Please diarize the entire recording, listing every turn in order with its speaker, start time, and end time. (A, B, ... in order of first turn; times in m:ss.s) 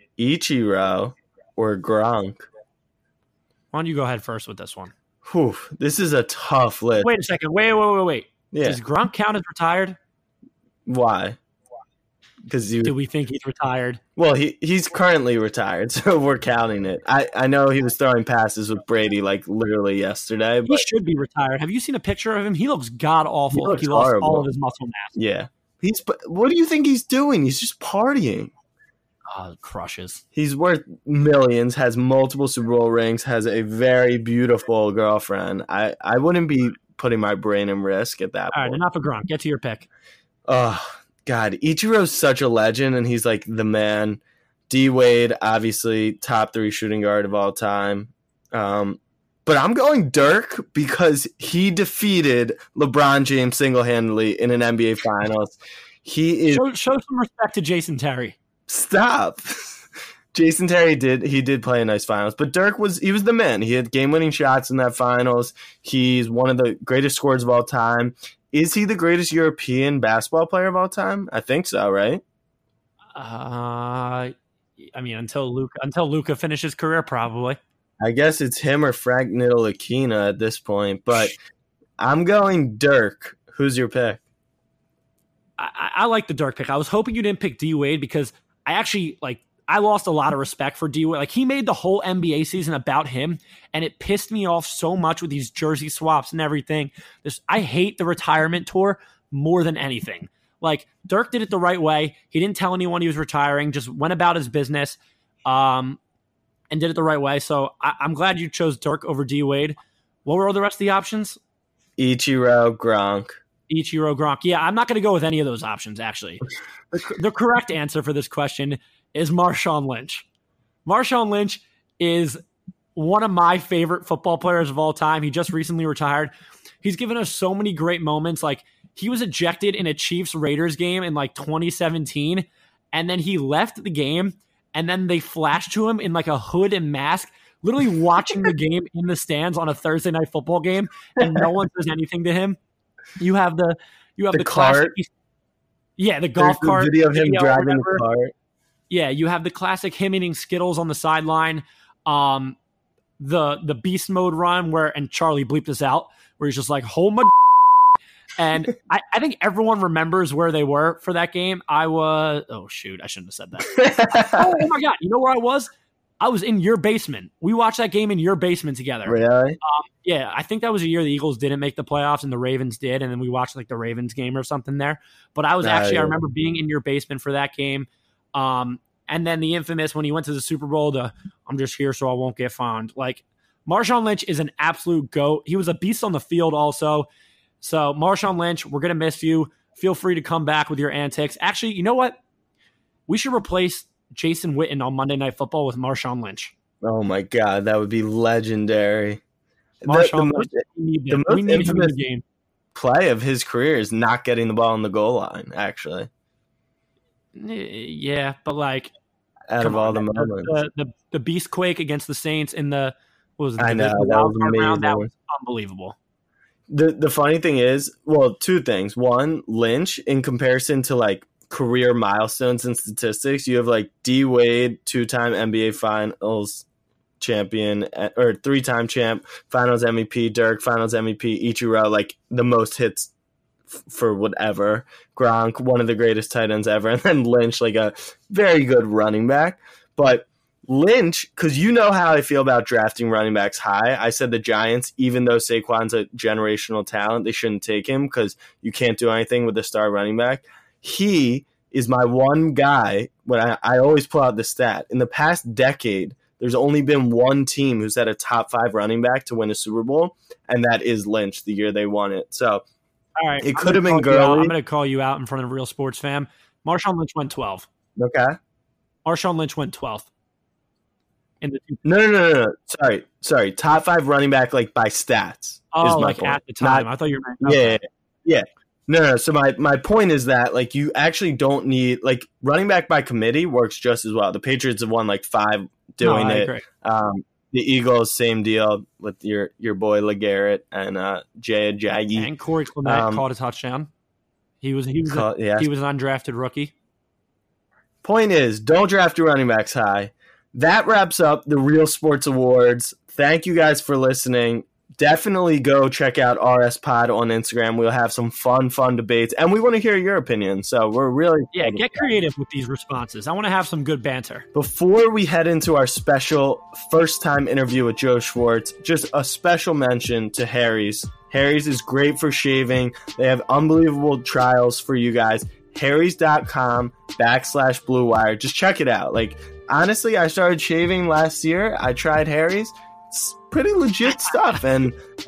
0:00.2-0:02.4 A
0:03.7-0:04.9 B
0:05.2-0:07.1 A
0:07.0-0:10.0 B
0:08.5-0:08.8 A
0:10.9-0:11.4 A
0:12.5-0:12.9 A
0:12.8-0:14.0 B
0:14.2-0:20.8 A
0:20.7-0:25.2 B
0:23.5-0:24.5 A
0:25.1-0:28.5 A
0:29.3-0:30.2 B
0:30.3-0:38.8 A
0:38.5-0:39.9 B
0:40.5-0:56.6 A
0:56.5-0:58.4 B
0:58.7-0:59.8 A
1:00.3-1:12.2 A
1:13.1-1:17.6 B
1:18.0-1:21.4 A
1:22.0-1:24.2 A
1:25.6-1:46.0 B
1:46.7-1:51.4 B
1:52.0-1:53.4 A
1:53.7-2:00.2 B
2:00.8-2:02.4 B
2:02.9-2:22.6 B
2:23.2-2:25.1 B
2:24.3-2:24.9 A
2:26.0-2:28.0 B
2:26.4-2:28.3 A
2:28.9-2:32.6 B
2:33.2-2:37.5 B
2:38.4-2:43.7 B
2:43.7-2:44.6 A
2:44.3-3:07.1 B
2:49.0-2:49.6 A
2:55.6-2:56.2 A
3:07.6-3:12.2 B
3:13.1-3:16.5 B
3:16.8-3:19.2 A
3:19.8-3:22.2 B
3:19.8-3:22.0 A
3:22.7-3:26.1 A
3:27.3-3:28.9 B
3:29.5-3:30.5 A
3:29.6-3:36.0 B
3:33.6-3:35.1 A
3:36.7-3:46.6 A
3:47.2-3:53.1 A
3:53.7-4:22.6 A
4:23.2-4:27.7 B
4:23.4-4:24.5 A
4:28.0-4:28.4 A
4:29.0-4:30.1 B
4:31.4-4:31.8 B
4:31.8-4:36.9 A
4:35.7-4:37.8 B
4:37.4-4:52.3 A
4:46.0-4:46.6 B
4:52.1-4:53.9 B
4:52.8-4:53.2 A
4:54.6-4:56.7 B
4:55.0-4:55.7 A
4:58.0-5:12.1 A
5:11.5-5:14.4 B
5:14.5-5:35.0 A